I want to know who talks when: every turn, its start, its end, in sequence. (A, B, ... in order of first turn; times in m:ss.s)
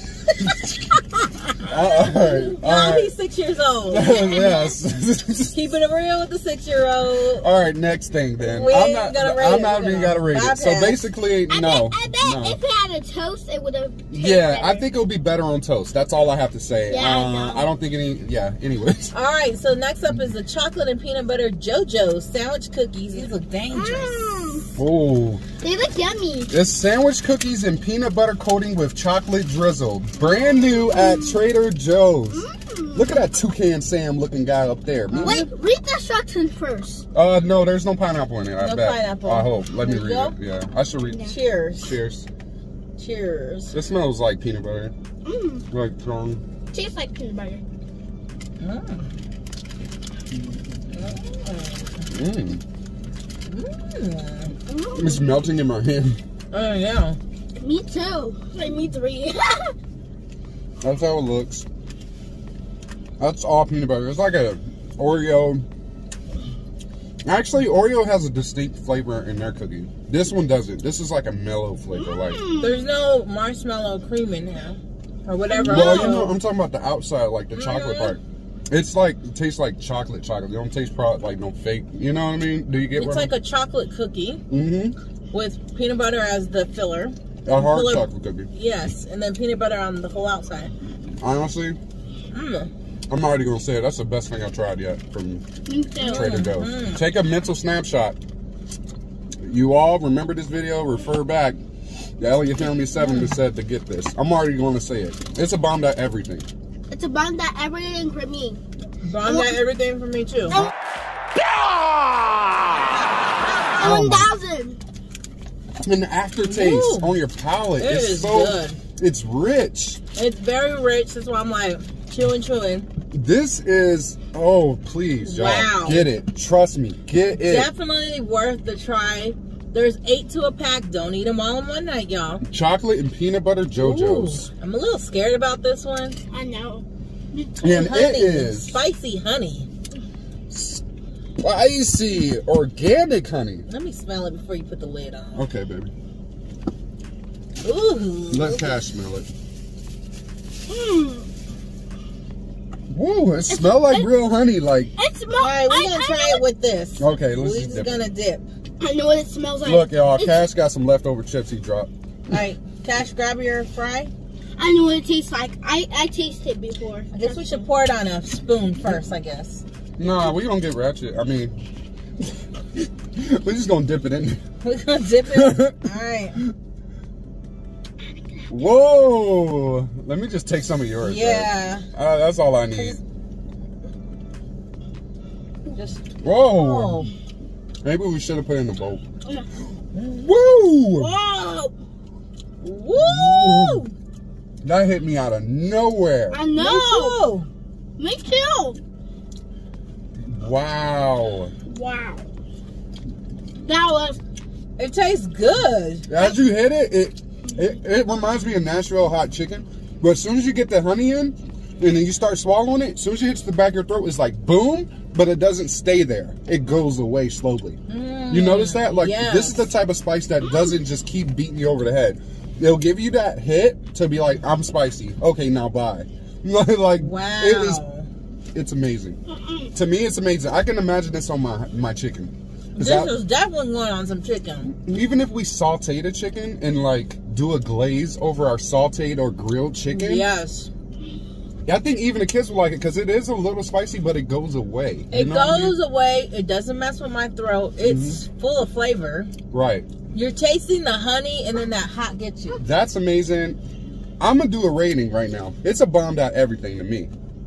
0:00.3-0:04.8 A
0:01.7-0:03.1 B
0:03.9-0:05.6 B
0:05.5-0:07.4 A
0:07.4-0:12.6 B
0:08.4-0:11.1 A
0:11.5-0:14.9 C
0:14.1-0:19.1 B
0:16.9-0:17.7 C
0:19.1-0:24.2 A
0:23.7-0:24.7 C
0:24.8-0:25.4 B
0:25.6-0:26.5 C
0:26.5-0:35.4 B
0:30.4-0:31.4 C
0:32.3-0:33.2 C
0:35.1-0:35.5 A
0:35.2-0:37.0 C
0:37.1-0:41.2 B
0:38.6-0:40.4 A
0:41.1-0:41.4 C
0:41.1-0:41.9 A
0:41.8-0:42.3 B
0:43.0-0:43.8 A
0:43.7-0:44.9 B
0:45.2-0:45.7 C
0:45.7-0:46.4 B
0:46.7-0:47.6 C
0:48.6-0:49.1 A
0:50.9-0:52.1 A
0:52.1-0:52.6 B
0:53.5-0:54.5 A
0:54.7-0:55.3 C
0:55.0-0:56.2 B
0:56.5-0:57.2 A
0:57.6-0:59.7 C
1:00.8-1:01.7 B
1:03.2-1:05.6 B
1:07.2-1:12.4 B
1:11.9-1:12.8 C
1:12.6-1:16.4 A
1:15.5-1:16.2 C
1:15.6-1:23.3 B
1:17.5-1:18.2 A
1:23.0-1:24.4 A
1:24.5-1:25.0 B
1:25.3-1:30.7 A
1:27.5-1:28.5 B
1:31.2-1:31.8 B
1:32.3-1:32.7 A
1:33.1-1:35.4 B
1:35.7-1:36.5 C
1:36.0-1:37.0 A
1:36.0-1:38.2 B
1:39.4-1:41.6 B
1:42.2-1:46.5 B
1:43.0-1:43.4 A
1:46.9-1:48.6 C
1:49.0-1:50.6 A
1:49.2-1:49.6 C
1:53.7-1:54.8 C
1:53.8-1:54.3 B
1:55.8-2:00.0 B
1:56.4-1:57.2 A
1:57.8-1:58.8 A
2:00.2-2:02.9 A
2:03.1-2:07.7 B
2:05.2-2:06.1 A
2:07.3-2:12.4 A
2:12.5-2:14.5 B
2:13.8-2:16.2 A
2:16.3-2:17.5 C
2:17.6-2:18.8 B
2:17.6-2:19.7 A
2:20.5-2:20.8 B
2:21.4-2:23.7 B
2:23.7-2:25.4 A
2:25.4-2:25.9 B
2:27.6-2:28.8 A
2:28.3-2:29.3 B
2:30.7-2:31.3 C
2:32.9-2:34.9 B
2:33.5-2:34.1 C
2:35.0-2:36.4 C
2:35.3-2:38.5 A
2:37.0-2:38.0 B
2:38.8-2:40.5 C
2:39.6-2:41.9 B
2:42.3-2:44.1 A
2:44.6-2:47.6 C
2:47.1-2:49.6 A
2:50.0-2:51.6 B
2:52.2-2:54.4 B
2:54.6-2:56.4 A
2:55.3-2:55.8 B
2:58.5-3:03.0 B
3:01.0-3:01.9 A
3:05.7-3:07.1 A
3:06.2-3:07.1 B
3:07.8-3:09.0 B
3:10.0-3:11.1 B
3:11.0-3:11.7 A
3:12.6-3:13.9 A
3:13.0-3:13.8 B
3:14.6-3:16.4 B
3:16.3-3:17.2 C
3:16.6-3:17.5 A
3:18.0-3:18.8 C
3:20.2-3:21.5 B
3:21.7-3:22.3 C
3:23.6-3:24.2 C
3:24.8-3:26.4 A
3:26.1-3:37.8 B
3:37.9-3:39.7 A
3:38.3-3:47.8 B
3:47.0-3:48.1 A
3:48.5-3:49.2 B
3:49.3-3:49.7 C
3:49.7-3:53.1 B
3:52.8-3:54.7 A
3:54.7-4:00.2 B
3:59.9-4:00.7 A
4:01.7-4:05.8 B
4:05.1-4:09.3 A
4:07.8-4:08.2 B
4:09.5-4:09.9 B
4:10.1-4:12.6 A
4:12.6-4:13.6 B
4:14.2-4:17.1 B